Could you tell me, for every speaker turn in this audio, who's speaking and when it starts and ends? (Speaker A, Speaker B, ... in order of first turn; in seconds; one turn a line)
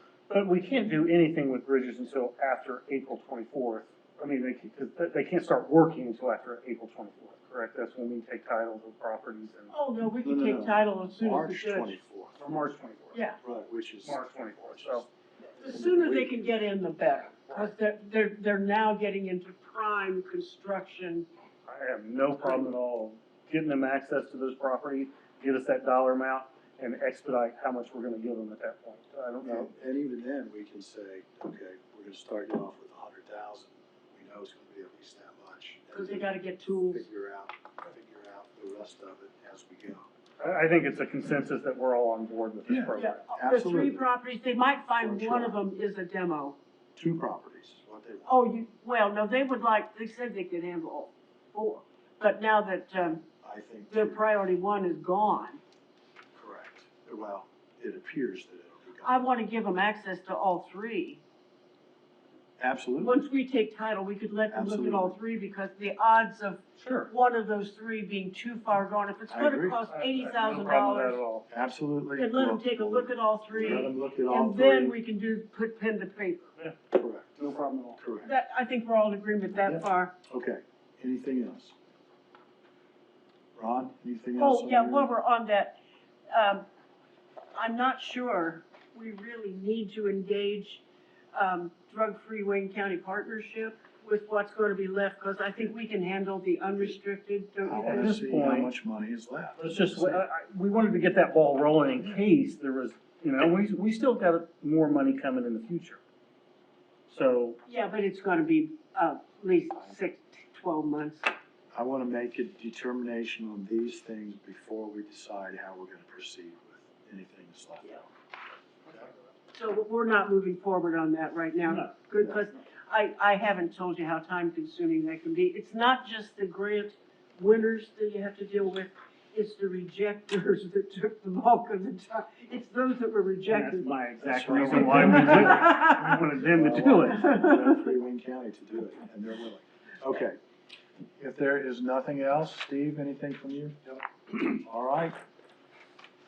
Speaker A: 0.3-9.7
Speaker B: 9.7-11.9
Speaker C: 10.2-12.4
Speaker A: 12.4-13.2
Speaker B: 13.1-13.4
Speaker C: 13.4-15.1
Speaker A: 14.0-15.0
Speaker B: 15.6-21.3
Speaker C: 15.6-16.3
Speaker A: 21.6-29.7
Speaker C: 29.4-40.1
Speaker B: 35.9-37.0
Speaker A: 40.4-43.2
Speaker C: 42.7-44.0
Speaker B: 42.9-46.5
Speaker C: 45.0-45.6
Speaker C: 47.0-48.3
Speaker B: 48.2-53.2
Speaker C: 53.4-54.2
Speaker B: 53.9-55.6
Speaker C: 56.3-59.3
Speaker B: 59.0-61.2
Speaker C: 62.6-63.2
Speaker B: 63.0-71.2
Speaker C: 64.5-65.1
Speaker A: 66.8-67.1
Speaker C: 69.3-69.8
Speaker A: 69.9-71.5
Speaker C: 71.5-75.0
Speaker B: 72.2-76.5
Speaker C: 76.9-77.3
Speaker A: 77.3-78.0
Speaker C: 78.0-78.3
Speaker B: 78.2-80.1
Speaker C: 79.6-81.7
Speaker C: 83.5-85.1
Speaker B: 84.3-85.8
Speaker B: 86.3-86.7
Speaker B: 87.5-90.8
Speaker B: 91.3-98.2
Speaker C: 97.6-100.2
Speaker A: 97.7-98.7
Speaker A: 99.6-106.0
Speaker A: 107.1-107.6
Speaker B: 107.7-111.3
Speaker C: 111.7-118.1
Speaker B: 119.5-133.9
Speaker A: 121.7-121.9
Speaker C: 122.2-122.4
Speaker A: 133.5-137.3
Speaker C: 134.2-135.7
Speaker B: 134.5-136.2
Speaker C: 136.4-140.4
Speaker B: 137.1-137.9
Speaker C: 141.2-145.2